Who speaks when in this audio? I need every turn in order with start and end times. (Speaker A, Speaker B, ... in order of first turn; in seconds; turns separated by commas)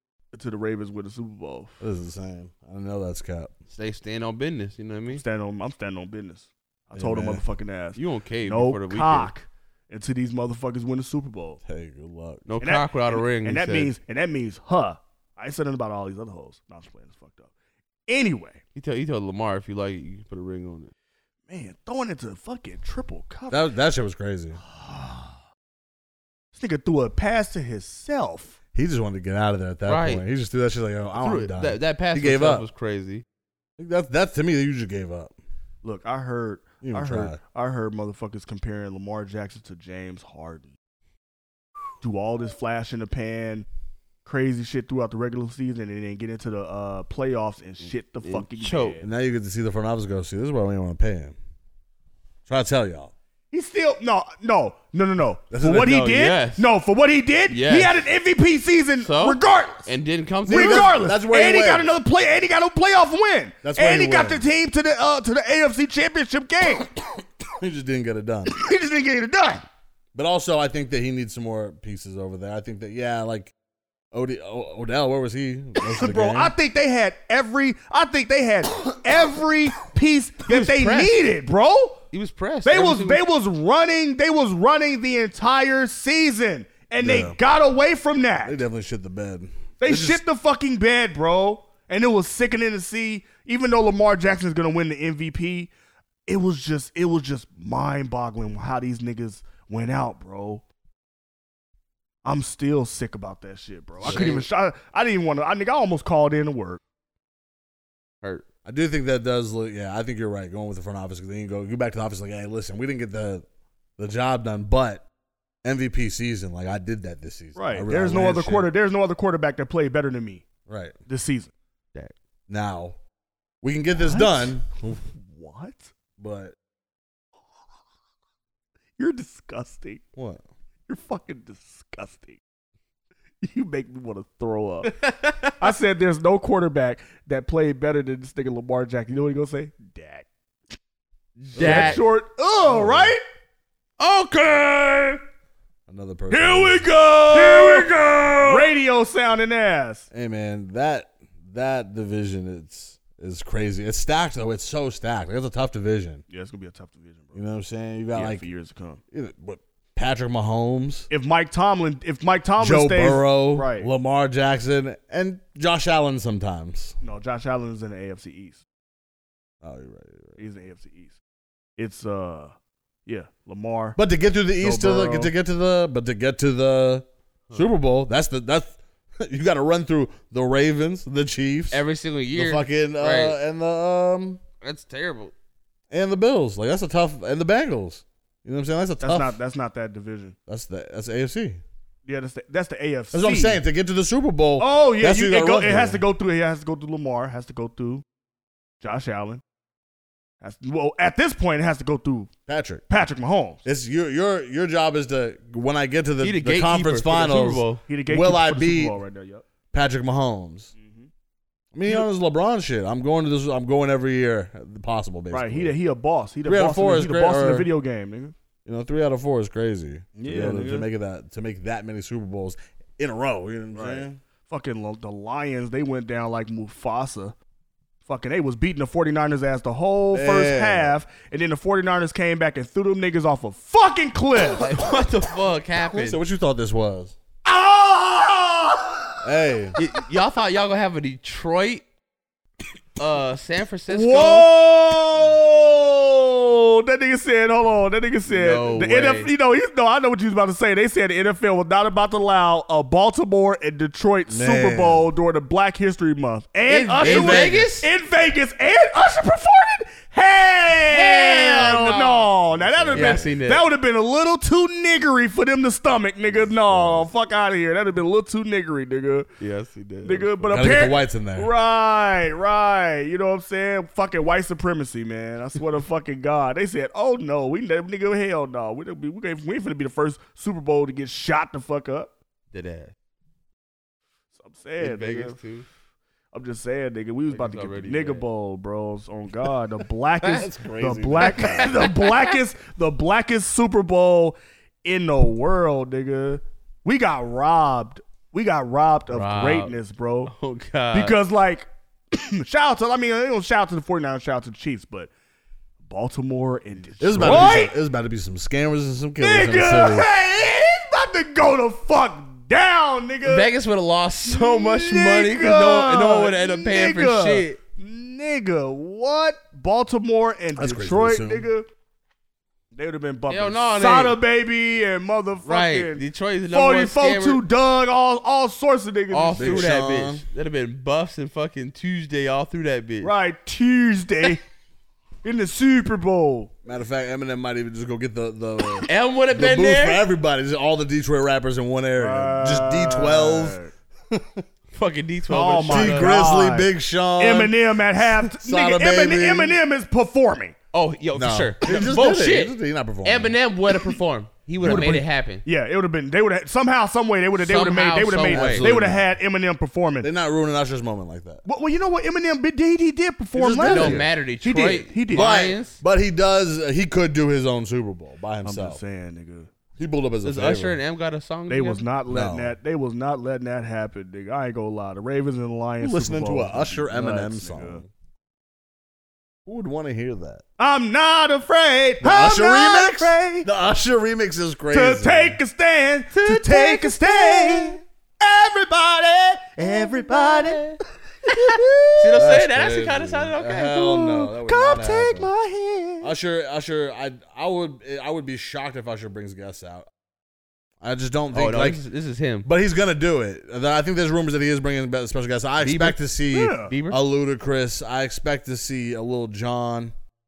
Speaker A: 0.3-1.8, Speaker B: 1.8-3.5, Speaker C: 3.7-5.2, Speaker A: 5.1-11.6, Speaker B: 6.9-7.4, Speaker C: 8.0-9.3, Speaker B: 11.7-12.4, Speaker C: 12.5-13.9, Speaker A: 12.6-17.5, Speaker A: 18.1-18.6, Speaker C: 18.8-20.9, Speaker A: 21.5-23.7, Speaker B: 23.5-24.6, Speaker A: 24.6-25.4, Speaker A: 26.5-28.6, Speaker B: 28.7-32.6, Speaker C: 29.9-30.2, Speaker C: 31.2-33.2, Speaker B: 33.8-35.3, Speaker A: 35.8-40.7, Speaker B: 36.8-37.4, Speaker A: 42.0-43.7, Speaker A: 44.2-49.0, Speaker C: 48.2-49.0, Speaker B: 49.0-51.4, Speaker B: 52.5-53.1, Speaker A: 53.5-59.9, Speaker B: 55.5-56.3, Speaker C: 56.0-56.7, Speaker C: 57.5-58.0, Speaker C: 59.0-61.0, Speaker B: 60.5-61.9, Speaker A: 60.5-66.9, Speaker B: 63.6-64.4, Speaker B: 67.6-68.5, Speaker A: 68.5-69.6, Speaker B: 70.1-73.5, Speaker B: 74.1-76.5, Speaker A: 75.9-82.0, Speaker C: 80.5-81.2, Speaker C: 82.1-83.2, Speaker A: 82.6-88.6, Speaker B: 87.0-87.4, Speaker B: 88.4-90.2, Speaker A: 89.8-95.7, Speaker A: 96.3-100.6, Speaker A: 102.2-106.8, Speaker C: 104.0-104.5, Speaker B: 104.0-104.3, Speaker B: 108.6-113.4, Speaker B: 114.0-115.0, Speaker B: 115.6-118.7, Speaker A: 117.5-120.5, Speaker B: 120.7-120.9, Speaker A: 121.1-121.5, Speaker B: 122.5-123.0, Speaker B: 123.6-125.0, Speaker A: 123.9-125.9, Speaker B: 126.2-126.5, Speaker A: 129.0-130.0, Speaker B: 130.2-130.4, Speaker A: 130.9-132.4, Speaker A: 133.4-134.9, Speaker C: 134.8-135.6, Speaker A: 135.6-140.3, Speaker C: 141.4-142.0, Speaker B: 141.5-142.0, Speaker A: 141.5-143.2, Speaker B: 142.6-143.1, Speaker C: 144.0-145.2, Speaker B: 145.9-148.5, Speaker A: 146.3-150.1, Speaker C: 147.1-148.4, Speaker B: 150.1-156.2, Speaker A: 156.3-157.4, Speaker B: 157.3-158.4, Speaker A: 158.1-159.0, Speaker B: 159.1-161.1, Speaker A: 161.1-163.9, Speaker B: 162.6-166.9, Speaker A: 167.0-168.6, Speaker B: 169.6-170.4, Speaker A: 170.4-171.2, Speaker A: 171.8-172.5, Speaker A: 173.1-174.0, Speaker B: 174.0-181.8, Speaker A: 174.6-175.3, Speaker C: 181.7-183.4, Speaker B: 182.3-184.4, Speaker C: 184.6-185.3, Speaker B: 185.9-189.3, Speaker A: 189.0-190.3, Speaker B: 190.5-191.6, Speaker A: 192.1-193.6, Speaker B: 193.1-196.0, Speaker A: 194.6-198.0, Speaker A: 198.8-199.4, Speaker A: 200.4-202.3, Speaker B: 202.5-202.8, Speaker A: 202.9-203.6, Speaker B: 203.6-208.9, Speaker C: 206.2-207.8, Speaker A: 207.9-209.4, Speaker B: 209.7-210.7, Speaker A: 210.8-211.1, Speaker B: 211.7-215.7, Speaker A: 215.3-218.3, Speaker B: 216.4-217.7, Speaker B: 218.6-224.2, Speaker A: 220.2-220.9, Speaker A: 223.7-227.3, Speaker A: 228.0-234.7, Speaker B: 230.1-230.9, Speaker C: 234.5-236.2, Speaker B: 235.9-237.2, Speaker A: 237.4-239.1, Speaker B: 239.2-239.8, Speaker C: 239.8-241.8, Speaker C: 243.0-244.5, Speaker A: 243.9-269.3, Speaker C: 248.3-249.3, Speaker B: 254.3-255.1, Speaker C: 256.7-257.9, Speaker B: 257.0-257.7, Speaker C: 260.9-262.3, Speaker B: 262.5-263.3, Speaker C: 262.9-263.6, Speaker B: 266.3-267.1, Speaker C: 269.4-270.7, Speaker A: 270.0-282.1, Speaker B: 270.5-271.5, Speaker C: 282.5-282.9, Speaker A: 284.3-285.4, Speaker C: 284.8-285.6, Speaker A: 286.3-300.3, Speaker C: 287.3-288.2, Speaker B: 290.2-291.7, Speaker C: 291.2-292.3, Speaker C: 299.1-299.7, Speaker C: 300.2-301.1, Speaker A: 300.9-305.1, Speaker A: 305.8-307.7, Speaker B: 307.0-310.1, Speaker C: 307.2-307.6, Speaker A: 309.2-313.5, Speaker C: 313.2-317.6, Speaker A: 314.2-321.7, Speaker B: 320.6-321.5, Speaker A: 322.7-329.7, Speaker C: 323.3-324.2, Speaker C: 325.4-327.4, Speaker C: 329.1-333.1, Speaker B: 329.4-330.2, Speaker A: 333.0-334.4, Speaker A: 335.2-336.5, Speaker B: 336.6-343.6, Speaker C: 338.9-340.0, Speaker A: 342.0-343.7, Speaker B: 344.1-344.4, Speaker C: 344.7-346.2, Speaker A: 345.3-350.5, Speaker B: 345.7-349.6, Speaker C: 350.7-355.4, Speaker B: 351.1-353.3, Speaker B: 354.6-355.0, Speaker A: 354.6-360.1, Speaker C: 357.4-358.7, Speaker B: 358.3-359.0, Speaker B: 360.0-361.4, Speaker A: 361.4-365.3, Speaker B: 363.3-364.1, Speaker C: 363.6-365.8, Speaker B: 365.1-368.8, Speaker A: 368.4-369.5, Speaker B: 369.8-370.8, Speaker C: 370.2-371.8, Speaker A: 371.5-377.8, Speaker B: 372.1-372.6, Speaker B: 375.8-377.9, Speaker B: 379.4-380.4, Speaker A: 380.6-383.5, Speaker B: 382.0-385.4, Speaker A: 384.7-390.7, Speaker C: 386.1-387.8, Speaker C: 389.6-390.8, Speaker A: 391.2-392.2, Speaker C: 391.3-394.0, Speaker B: 392.1-395.3, Speaker A: 394.0-396.1, Speaker B: 396.0-399.9, Speaker B: 400.8-401.8, Speaker C: 401.3-402.5, Speaker B: 402.4-409.9, Speaker C: 405.6-406.0, Speaker A: 406.3-406.7, Speaker C: 406.7-407.0